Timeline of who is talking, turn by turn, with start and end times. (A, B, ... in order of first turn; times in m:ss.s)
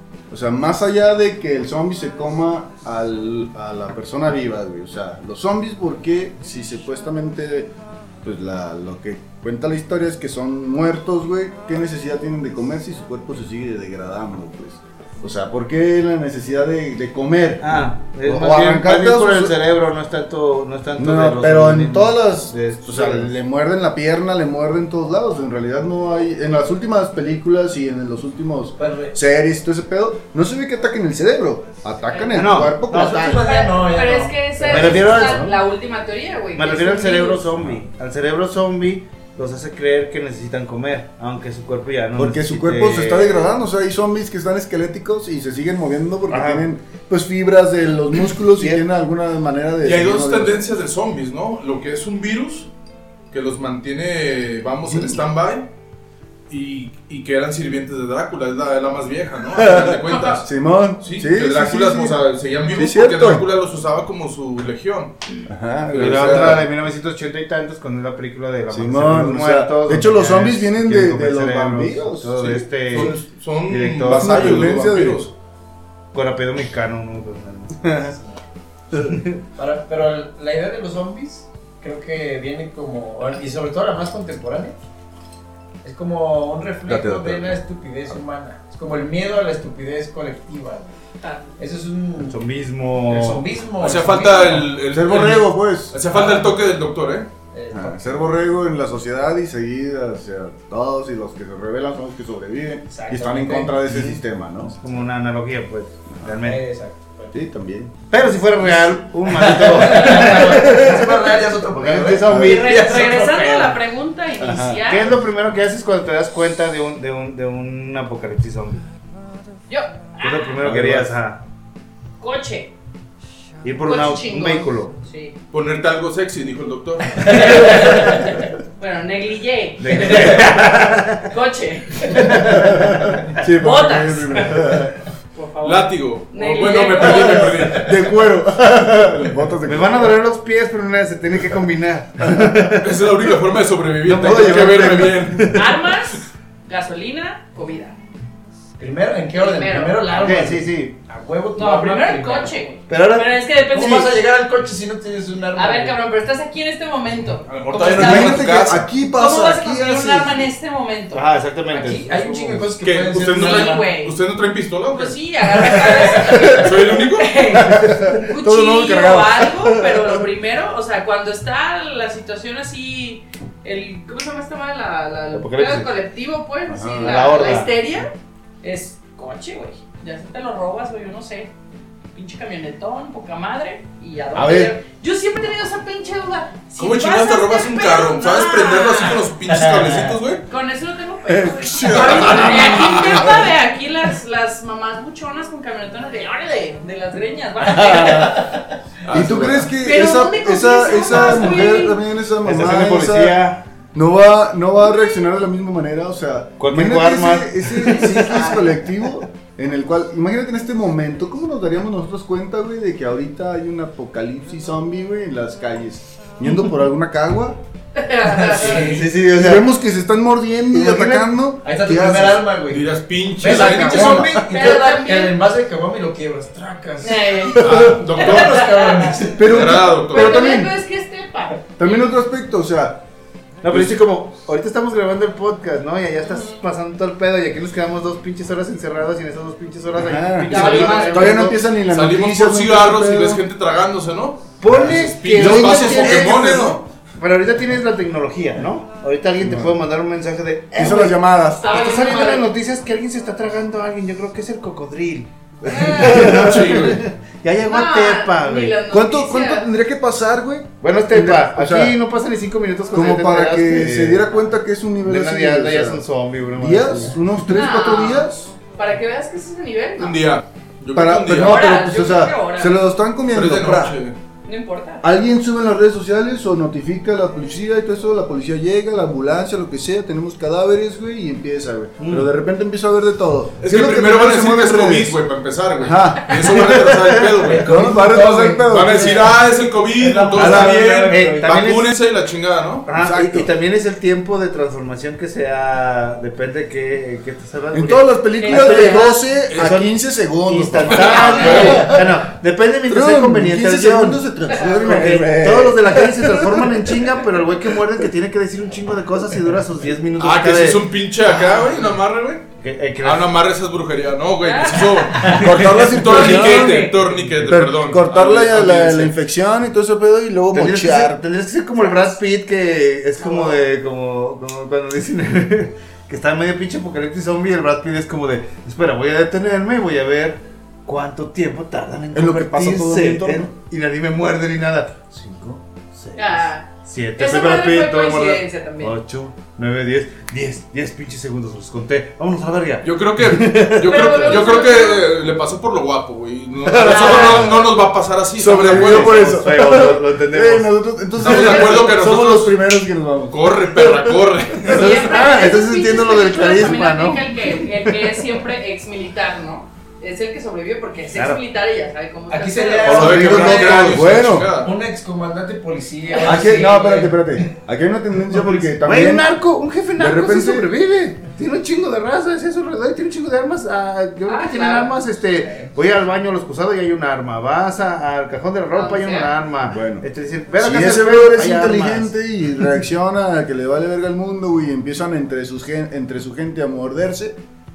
0:00.3-0:19.6 A
0:17.6-0:23.3 B
0:21.0-0:33.4 A
0:28.8-0:29.2 C
0:32.3-0:33.2 B
0:32.9-0:35.2 C
0:33.2-0:37.5 D
0:34.7-0:35.6 B
0:34.8-0:35.6 A
0:36.6-0:43.5 B
0:42.2-0:50.7 A
0:46.3-0:46.7 B
0:48.6-0:48.8 B
0:49.8-0:52.7 E
0:53.3-0:55.7 E
0:54.9-0:55.2 A
0:56.5-1:00.5 E
0:59.6-1:03.5 A
1:00.1-1:00.4 D
1:01.0-1:05.2 E
1:05.5-1:06.7 A
1:05.9-1:06.6 E
1:05.9-1:13.2 B
1:08.7-1:13.2 A
1:12.4-1:15.3 E
1:13.7-1:14.9 B
1:14.1-1:15.3 A
1:16.1-1:18.1 B
1:17.8-1:18.1 A
1:18.1-1:18.4 C
1:18.9-1:19.4 B
1:19.6-1:24.8 C
1:25.8-1:31.0 C
1:26.9-1:27.6 A
1:31.2-1:31.6 D
1:31.6-1:32.4 C
1:32.3-1:33.5 B
1:33.1-1:34.7 C
1:33.8-1:37.3 E
1:34.9-1:36.0 A
1:36.1-1:36.5 C
1:37.5-1:38.4 C
1:37.7-1:44.8 A
1:42.9-1:44.0 C
1:44.8-1:46.6 B
1:46.4-1:47.4 C
1:47.3-1:48.0 A
1:48.1-1:53.0 B
1:48.6-1:53.8 C
1:52.2-1:52.6 A
1:52.4-1:55.2 D
1:54.4-1:54.8 A
1:54.8-1:58.8 B
1:59.7-2:00.6 D
2:00.2-2:01.4 B
2:00.6-2:01.2 A
2:02.2-2:02.7 D
2:03.6-2:05.0 B
2:03.8-2:05.4 D
2:05.5-2:07.8 E
2:07.2-2:12.6 D
2:07.6-2:08.2 C
2:09.8-2:11.3 B
2:12.3-2:13.1 B
2:12.3-2:15.0 A
2:13.5-2:14.8 D
2:15.3-2:17.9 D
2:15.6-2:18.2 E
2:17.0-2:20.2 A
2:19.6-2:23.0 B
2:22.3-2:22.7 A
2:22.8-2:25.6 E
2:24.0-2:25.8 B
2:24.1-2:25.5 A
2:25.5-2:28.0 D
2:28.8-2:32.6 C
2:29.3-2:30.3 D
2:30.2-2:31.0 B
2:31.6-2:34.1 D
2:32.9-2:34.1 B
2:33.7-2:36.0 C
2:35.6-2:41.2 D
2:37.5-2:38.8 E
2:37.8-2:40.5 A
2:41.1-2:42.7 B
2:41.7-2:43.9 C
2:42.8-2:47.4 E
2:43.3-2:44.2 D
2:44.9-3:01.5 D
2:47.6-2:50.2 A
2:55.3-2:55.9 B
2:56.7-2:57.3 A
2:57.0-2:57.8 B
3:02.1-3:09.3 D
3:04.3-3:04.8 A
3:06.8-3:10.4 E
3:10.5-3:18.7 D
3:11.3-3:13.4 A
3:11.8-3:13.4 E
3:17.9-3:18.6 C
3:19.0-3:19.7 E
3:19.1-3:23.4 A
3:19.7-3:22.0 D
3:22.4-3:23.6 B
3:23.9-3:37.6 A
3:26.6-3:28.6 B
3:28.2-3:28.6 D
3:38.0-3:39.0 D
3:38.3-3:39.1 C
3:38.7-3:39.7 B
3:39.3-3:42.5 A
3:40.7-3:41.3 B
3:41.6-3:42.9 C
3:42.7-3:44.4 E
3:43.4-3:49.6 C
3:43.6-3:45.4 D
3:43.6-3:44.4 A
3:47.0-3:49.3 D
3:47.6-3:48.7 E
3:49.4-3:50.7 A
3:49.4-3:50.5 E
3:50.0-3:52.1 D
3:51.8-3:53.0 A
3:53.6-4:01.6 B
3:53.7-3:54.0 A
3:59.9-4:03.4 A
4:00.5-4:01.5 D
4:01.8-4:06.8 E
4:04.6-4:06.5 B
4:04.7-4:06.8 A
4:07.2-4:18.8 B
4:09.4-4:09.8 A
4:10.8-4:12.0 A
4:11.6-4:12.5 D
4:15.6-4:16.2 D
4:15.8-4:16.7 A
4:15.9-4:17.0 E
4:17.6-4:19.7 D
4:18.9-4:22.0 A
4:20.8-4:24.4 B
4:22.9-4:26.0 A
4:25.0-4:27.3 B
4:26.6-4:28.5 A
4:27.5-4:30.2 D
4:30.0-4:31.7 E
4:30.9-4:34.0 A
4:31.4-4:32.8 D
4:33.3-4:34.2 E
4:34.4-4:35.0 D
4:35.0-4:45.2 A
4:42.0-4:42.3 B
4:43.6-4:47.8 E
4:45.8-4:46.9 A
4:46.6-4:47.4 B
4:47.4-4:49.4 C
4:47.6-4:49.3 A
4:48.7-4:52.9 E
4:50.0-4:51.6 C
4:50.4-4:52.0 B
4:52.9-4:53.5 A
4:52.9-5:11.7 B
4:57.7-5:02.1 A
4:58.4-4:59.2 D
5:00.9-5:01.9 E
5:01.2-5:01.9 D
5:02.9-5:07.0 A
5:04.5-5:04.8 D
5:10.2-5:12.5 E
5:12.6-5:13.4 B
5:13.0-5:19.1 E
5:14.4-5:15.4 D
5:15.2-5:16.9 A
5:15.2-5:17.6 B
5:16.5-5:16.9 D
5:17.5-5:21.2 A
5:20.5-5:44.5 B
5:21.8-5:22.2 D
5:23.2-5:23.6 D
5:32.1-5:33.5 A
5:36.2-5:39.0 D
5:42.8-5:49.2 E
5:43.8-5:45.1 D
5:46.6-5:47.6 B
5:46.8-5:47.5 D
5:48.4-5:54.2 A
5:48.5-5:50.7 B
5:51.2-5:52.6 E
5:53.3-5:55.0 E
5:54.7-5:57.3 B
5:54.7-6:03.1 D
6:01.1-6:01.4 B
6:02.3-6:03.9 C
6:02.9-6:04.7 E
6:02.9-6:04.0 B
6:03.0-6:04.5 A
6:04.6-6:07.4 C
6:06.2-6:06.7 D
6:06.2-6:09.3 A
6:08.3-6:22.1 B
6:10.0-6:10.7 A
6:14.3-6:15.0 D
6:15.4-6:15.7 C
6:18.7-6:19.3 D
6:19.7-6:27.4 A